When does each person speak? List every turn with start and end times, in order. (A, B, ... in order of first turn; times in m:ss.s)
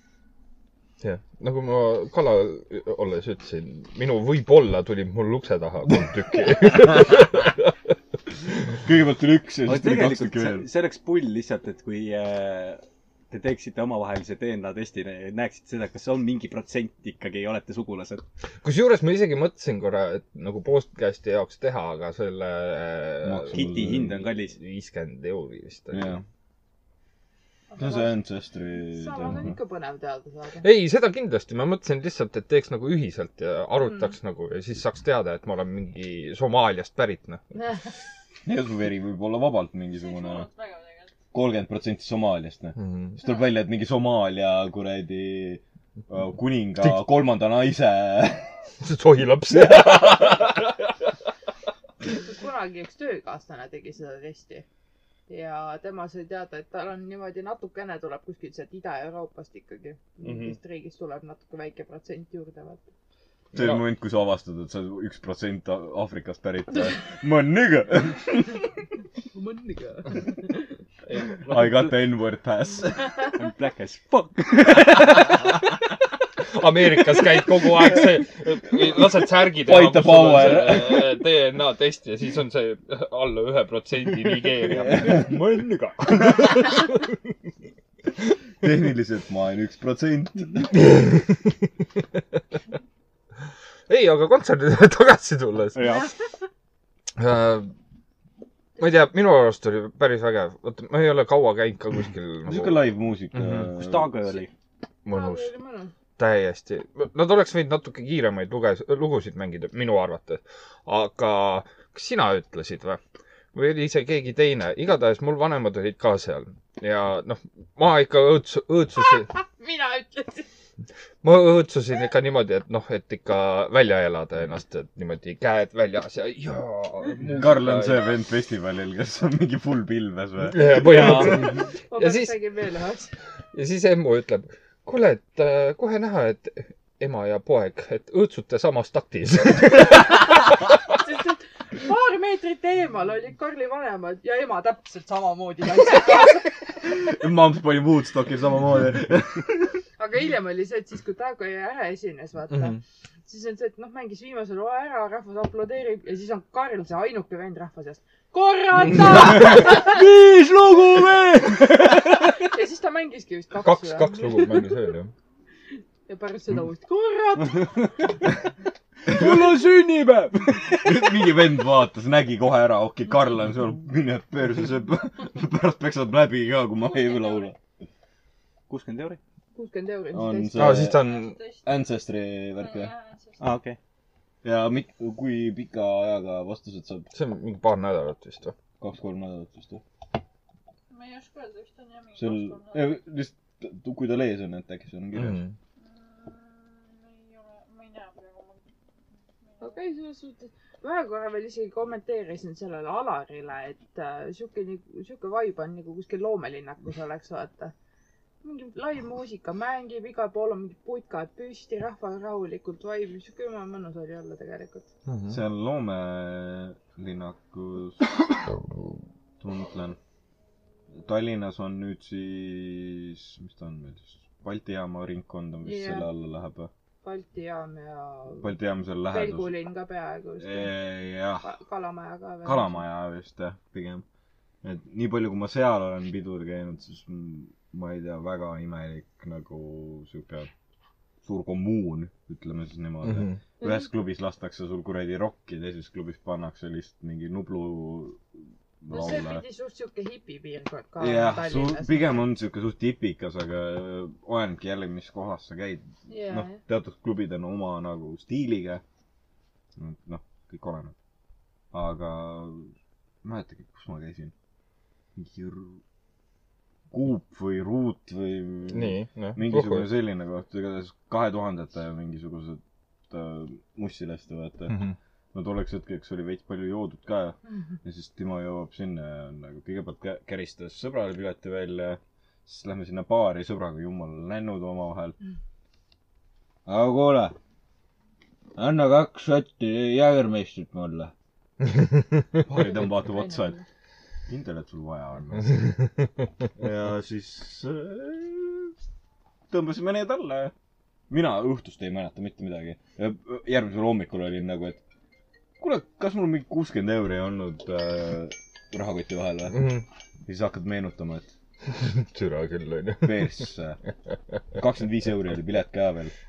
0:01.0-0:07.7 A
0:06.8-0:07.1 B
0:08.7-0:10.7 B
0:09.6-0:18.2 C
0:18.6-0:26.2 A
0:23.2-0:24.2 B
0:23.5-0:24.6 C
0:25.9-0:26.2 B
0:27.7-0:28.2 D
0:27.8-0:29.6 B
0:28.8-0:30.7 D
0:30.6-0:37.5 A
0:37.5-0:37.8 D
0:38.4-0:40.5 B
0:39.9-0:41.1 E
0:41.3-0:48.6 B
0:42.8-0:43.2 A
0:46.8-0:47.0 A
0:48.8-0:50.8 A
0:49.5-0:50.1 B
0:52.0-0:54.6 D
0:55.3-1:02.9 D
1:00.2-1:00.6 A
1:03.5-1:03.8 A
1:03.5-1:08.6 B
1:09.3-1:10.7 D
1:11.1-1:11.7 A
1:11.4-1:13.1 B
1:13.3-1:15.3 C
1:16.5-1:27.1 A
1:19.6-1:21.2 B
1:24.6-1:25.3 B
1:28.6-1:30.9 B
1:30.7-1:31.5 A
1:33.9-1:36.0 A
1:35.7-1:36.1 C
1:37.2-1:37.7 A
1:38.8-1:43.7 A
1:42.4-1:44.2 B
1:43.8-1:44.5 C
1:45.0-1:45.5 A
1:45.1-1:45.9 D
1:46.2-1:53.0 A
1:53.5-1:59.3 A
1:59.3-2:00.5 D
2:01.2-2:08.1 A
2:07.2-2:11.5 B
2:10.4-2:12.4 A
2:10.9-2:11.3 C
2:11.0-2:13.1 D
2:13.5-2:20.7 A
2:21.0-2:26.5 D
2:26.8-2:29.8 B
2:30.0-2:40.0 D
2:32.5-2:32.8 A
2:39.0-2:42.4 C
2:42.4-2:44.7 D
2:43.6-2:45.1 A
2:46.1-2:48.0 D
2:47.6-2:47.9 C
2:49.0-2:51.2 C
2:49.1-2:49.4 B
2:50.7-2:57.6 B
2:56.8-2:57.5 E
2:58.7-2:59.2 C
2:59.5-3:00.8 D
3:00.1-3:01.0 B
3:00.5-3:01.4 A
3:00.8-3:01.9 E
3:01.6-3:02.9 B
3:02.6-3:03.6 E
3:03.4-3:03.8 C
3:04.4-3:07.1 B
3:07.1-3:08.5 A
3:08.8-3:09.8 B
3:10.9-3:13.0 E
3:12.2-3:15.4 B
3:15.1-3:15.5 A
3:15.8-3:18.6 E
3:19.4-3:19.8 E
3:19.6-3:27.7 D
3:28.4-3:34.8 D
3:35.1-3:35.4 A
3:35.3-3:38.1 B
3:39.4-3:40.0 B
3:40.9-3:46.7 B
3:45.6-3:46.1 D
3:47.0-3:48.5 D
3:48.4-3:49.5 B
3:49.1-3:50.7 D
3:50.4-3:51.5 B
3:51.4-3:52.8 D
3:52.4-3:54.0 B
3:54.6-4:00.5 B
4:01.2-4:09.4 B
4:03.0-4:03.4 A
4:03.6-4:03.9 D
4:08.9-4:12.2 D
4:11.0-4:18.8 B
4:16.1-4:16.6 D
4:19.8-4:20.9 B
4:21.7-4:22.7 B
4:23.2-4:24.3 B
4:25.2-4:25.8 B
4:26.9-4:34.8 B
4:28.7-4:29.9 A
4:35.3-4:45.2 B
4:46.6-4:47.4 B
4:48.6-4:51.1 B
4:51.7-4:52.0 A
4:52.4-4:53.6 B
4:52.5-4:53.6 D
4:54.3-4:55.6 B
4:55.6-4:55.9 A
4:56.6-4:58.7 B
4:59.5-5:00.5 B
5:01.1-5:04.8 B
5:05.6-5:09.7 B
5:09.5-5:09.8 A
5:10.2-5:11.3 B
5:11.7-5:13.4 A
5:13.0-5:13.8 B
5:14.5-5:16.1 B